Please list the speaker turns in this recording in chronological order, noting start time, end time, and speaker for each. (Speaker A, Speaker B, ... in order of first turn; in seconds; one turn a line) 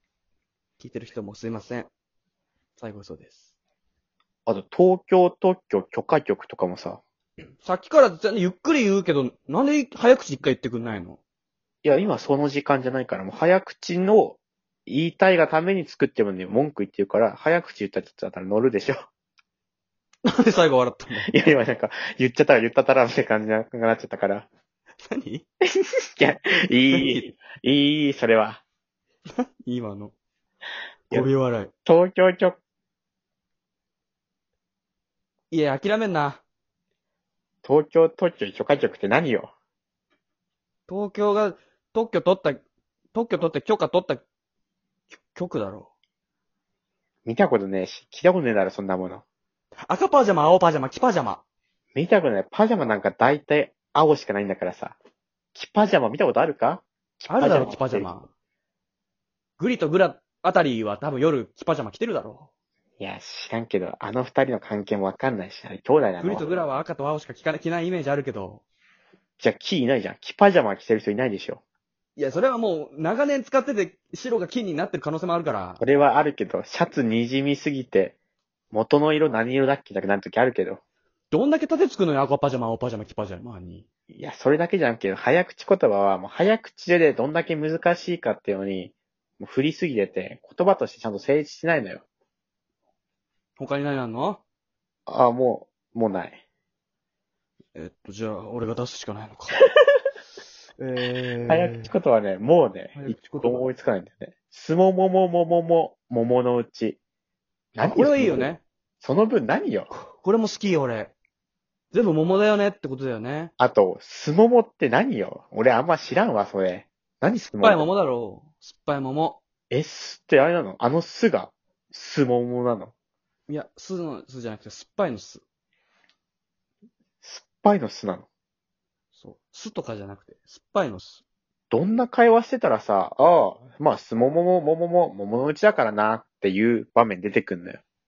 Speaker A: 0.8-1.9
Speaker A: 2.8-3.5
Speaker B: 4.5-7.0
Speaker A: 7.6-11.2
Speaker B: 11.8-19.1
Speaker A: 20.3-21.3
Speaker B: 21.3-24.5
Speaker A: 25.1-25.4
Speaker B: 25.6-28.6
Speaker A: 26.9-27.3
Speaker A: 29.4-30.1
Speaker A: 31.1-31.7
Speaker B: 31.9-32.6
Speaker A: 35.5-36.4
Speaker B: 37.6-39.5
Speaker A: 40.9-42.6
Speaker A: 43.1-44.2
Speaker A: 45.1-45.9
Speaker B: 47.2-49.2
Speaker A: 49.9-51.4
Speaker B: 52.0-55.0
Speaker B: 55.5-58.1
Speaker A: 57.3-58.3
Speaker A: 59.6-62.5
Speaker B: 63.0-66.5
Speaker A: 66.2-68.6
Speaker B: 69.4-71.6
Speaker A: 72.2-75.8
Speaker B: 75.8-78.2
Speaker B: 78.7-80.8
Speaker A: 81.3-83.9
Speaker B: 84.1-92.0
Speaker A: 93.6-94.4
Speaker B: 95.1-96.4
Speaker A: 97.8-99.6
Speaker A: 100.8-101.9
Speaker B: 101.5-107.0
Speaker A: 103.0-103.7
Speaker B: 107.8-108.5
Speaker A: 107.8-108.6
Speaker B: 109.0-109.9
Speaker A: 109.9-111.1
Speaker A: 111.9-113.5
Speaker B: 113.6-117.9
Speaker A: 117.6-119.4
Speaker B: 119.7-122.9
Speaker A: 123.5-125.4
Speaker B: 127.2-128.3
Speaker A: 129.1-131.2
Speaker B: 131.7-137.8